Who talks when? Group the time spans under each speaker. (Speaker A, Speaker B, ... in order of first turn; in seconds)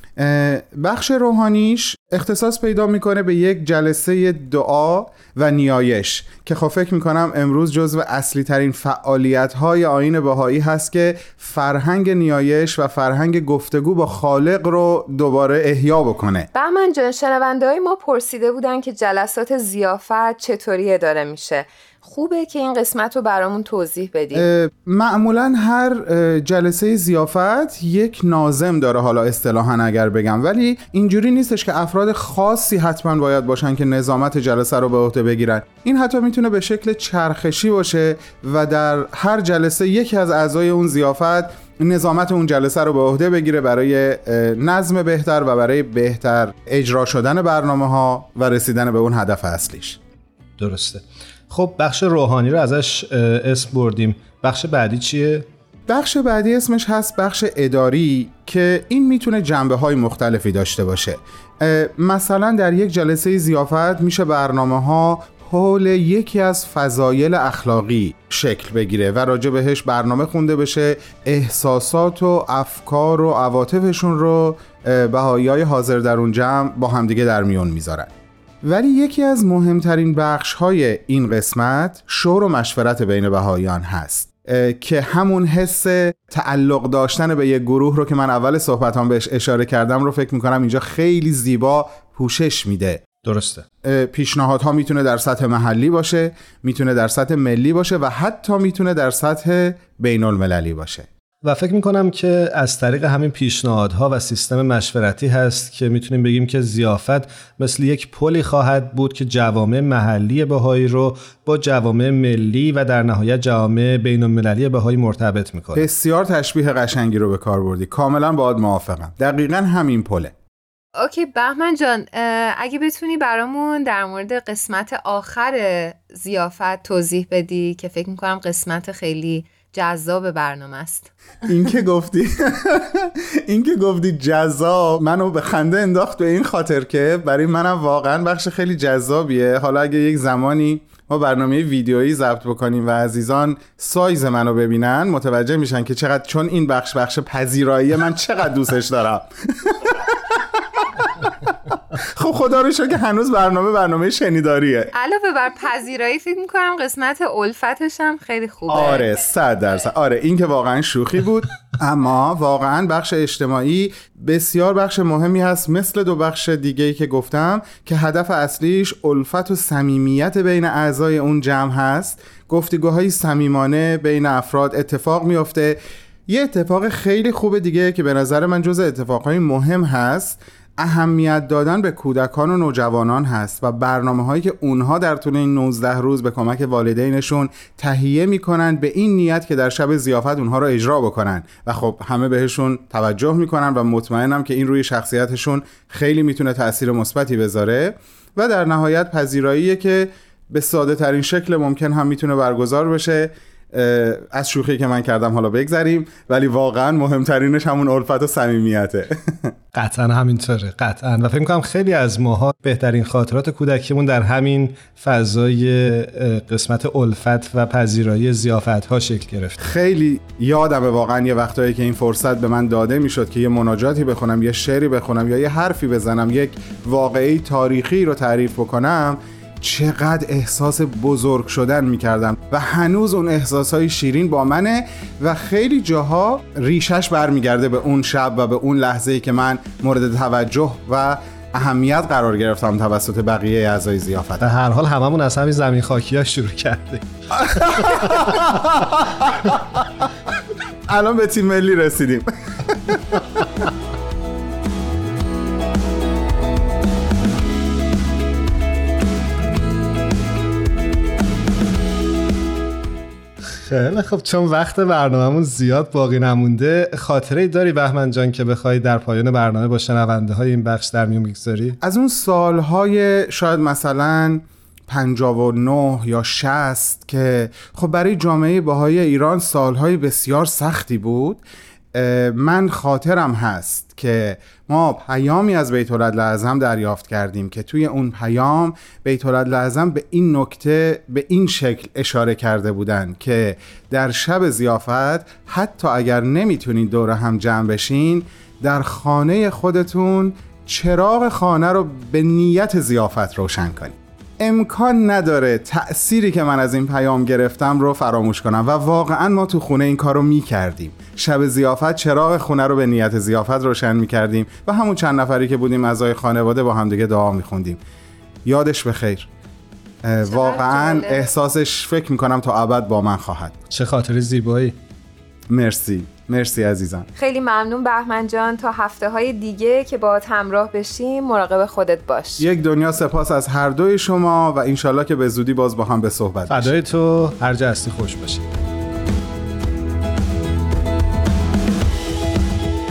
Speaker A: 0.2-16.5, 24.3-50.0, 55.9-78.1, 78.6-93.0, 93.8-101.1, 115.7-120.3, 131.5-151.3, 152.2-154.9, 158.7-175.8, 176.3-209.5, 219.6-244.5, 247.4-249.6, 250.9-252.3, 252.9-253.2, 271.8-281.4, 281.9-317.8, 318.4-319.3, 320.1-323.6, 325.5-327.1, 332.4-336.7
Speaker B: 16.5-24.5, 121.0-131.1, 154.9-159.1, 320.2-321.3, 327.1-332.4
Speaker C: 50.6-55.5, 93.2-93.7, 101.4-115.9, 209.8-219.6, 244.4-248.2, 263.7-271.8, 323.7-324.8, 336.5-338.5